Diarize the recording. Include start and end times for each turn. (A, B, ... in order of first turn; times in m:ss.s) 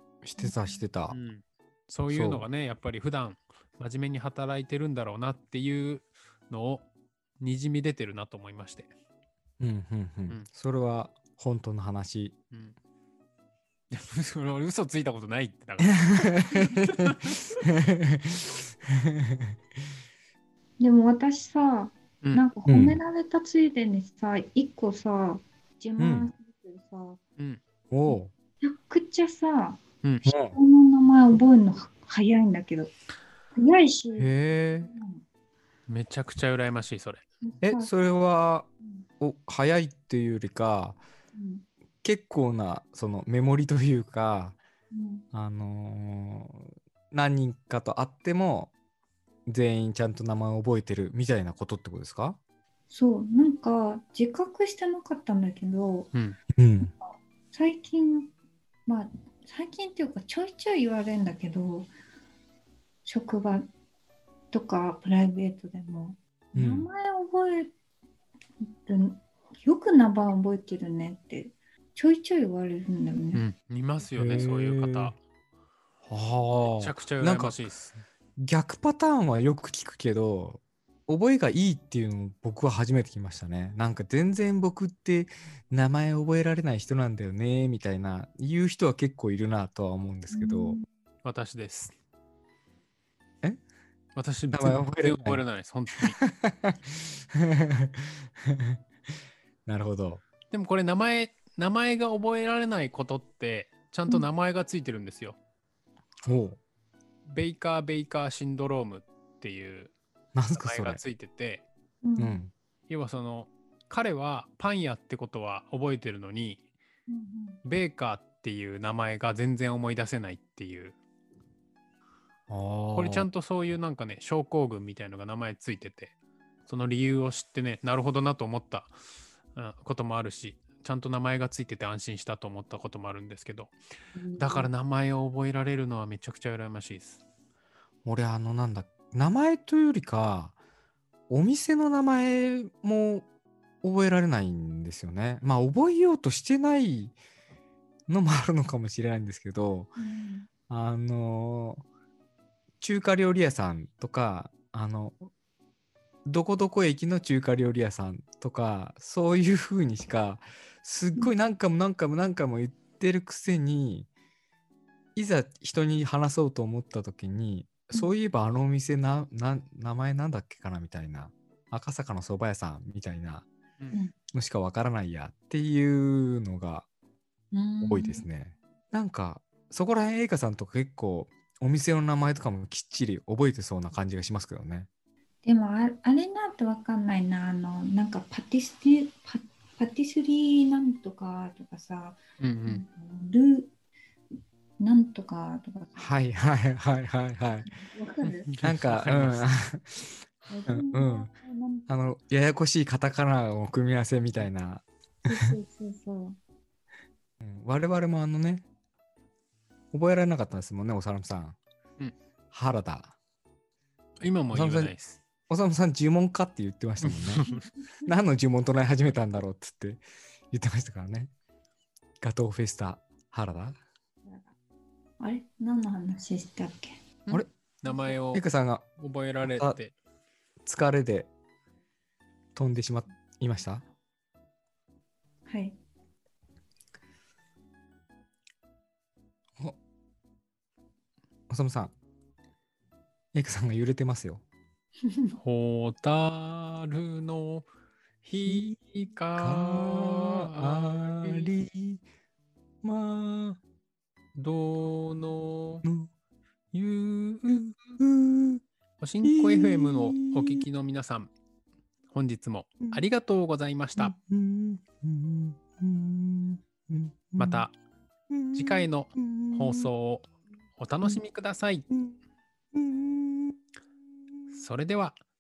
0:00.2-0:01.2 A
0:00.4-0:00.8 B
0:01.1-0:06.9 C
0:02.1-0:02.5 A
0:07.4-0:08.9 C
0:09.6-0:12.4 A
0:12.5-0:12.8 C
0:13.9-0:17.6 C
0:15.8-0:19.6 A
0:20.8-0:27.2 B
0:22.7-0:23.0 A
0:26.0-0:26.3 A
0:27.9-0:28.3 A
0:28.1-0:29.8 B
0:30.0-0:30.3 C
0:30.3-0:30.6 A
0:30.5-0:32.9 B
0:33.5-0:35.2 B
0:34.2-0:34.9 A
0:35.9-0:37.2 C
0:37.4-0:37.9 B
0:37.6-0:38.7 A
0:39.2-0:41.0 A
0:41.3-0:41.6 B
0:42.0-0:44.6 A
0:44.9-0:45.2 B
0:45.3-0:48.7 A
0:49.5-0:52.4 A
0:52.9-0:56.1 B
0:56.6-0:56.9 A
0:57.0-0:58.3 B
0:58.9-1:01.9 B
1:03.0-1:03.7 B
1:04.5-1:07.7 B
1:06.5-1:06.9 A
1:08.6-1:13.4 B
1:13.3-1:15.2 C
1:14.2-1:15.1 A
1:16.1-1:17.6 A
1:16.6-1:18.0 C
1:18.4-1:30.8 A
1:30.3-1:30.9 B
1:31.2-1:31.9 C
1:34.2-1:36.2 C
1:34.5-1:35.4 A
1:36.2-1:38.8 A
1:39.7-1:40.2 A
1:40.5-1:45.4 C
1:46.2-1:46.6 A
1:47.3-1:49.9 C
1:50.4-1:51.0 A
1:50.6-1:51.6 C
1:52.0-1:52.4 B
1:52.2-1:52.5 A
1:52.9-1:56.6 C
1:57.1-1:57.6 B
1:57.6-2:01.0 C
2:02.5-2:03.3 A
2:02.9-2:06.1 C
2:06.7-2:08.9 C
2:09.6-2:13.7 C
2:14.2-2:14.7 B
2:14.4-2:17.2 C
2:18.0-2:20.6 A
2:21.3-2:23.3 A
2:23.8-2:27.2 A
2:28.1-2:29.9 A
2:30.0-2:30.5 B
2:30.7-2:31.8 A
2:32.8-2:35.2 A
2:36.3-2:44.1 A
2:45.2-2:53.5 A
2:54.3-2:56.9 A
2:57.5-2:58.2 B
2:57.8-3:04.9 A
3:05.4-3:13.7 B
3:12.4-3:12.8 C
3:14.8-3:16.2 B
3:16.0-3:17.8 A
3:17.7-3:18.5 B
3:18.2-3:19.5 C
3:18.6-3:20.1 A
3:20.5-3:21.9 B
3:20.7-3:21.3 A
3:21.9-3:25.3 A
3:25.3-3:26.4 B
3:27.4-3:28.6 A
3:29.9-3:31.6 A
3:32.5-3:33.2 A
3:34.2-3:35.2 C
3:34.5-3:34.9 A
3:35.5-3:37.4 A
3:37.0-3:37.7 C
3:37.5-3:38.1 B
3:38.0-3:41.3 A
3:42.2-3:43.8 A
3:44.2-3:44.6 B
3:45.2-3:47.0 B
3:47.3-3:48.4 C
3:48.3-3:48.9 A
3:49.0-3:49.9 C
3:49.4-3:49.8 A
3:50.7-3:51.3 A
3:52.6-3:53.8 A
3:55.5-3:55.8 B
4:01.5-4:01.9 A
4:03.3-4:04.4 A
4:05.1-4:05.4 B
4:05.4-4:07.7 C
4:08.2-4:11.5 C
4:08.4-4:08.6 A
4:09.4-4:12.0 A
4:12.8-4:13.6 A
4:14.4-4:15.8 C
4:15.8-4:16.1 A
4:16.7-4:17.9 C
4:18.0-4:18.6 A
4:19.0-4:21.3 C
4:19.2-4:20.6 A
4:22.1-4:24.1 C
4:24.0-4:27.7 A
4:27.4-4:27.8 C
4:28.3-4:29.9 A
4:28.5-4:31.9 C
4:31.9-4:32.2 A
4:32.7-4:33.6 A
4:34.5-4:35.2 C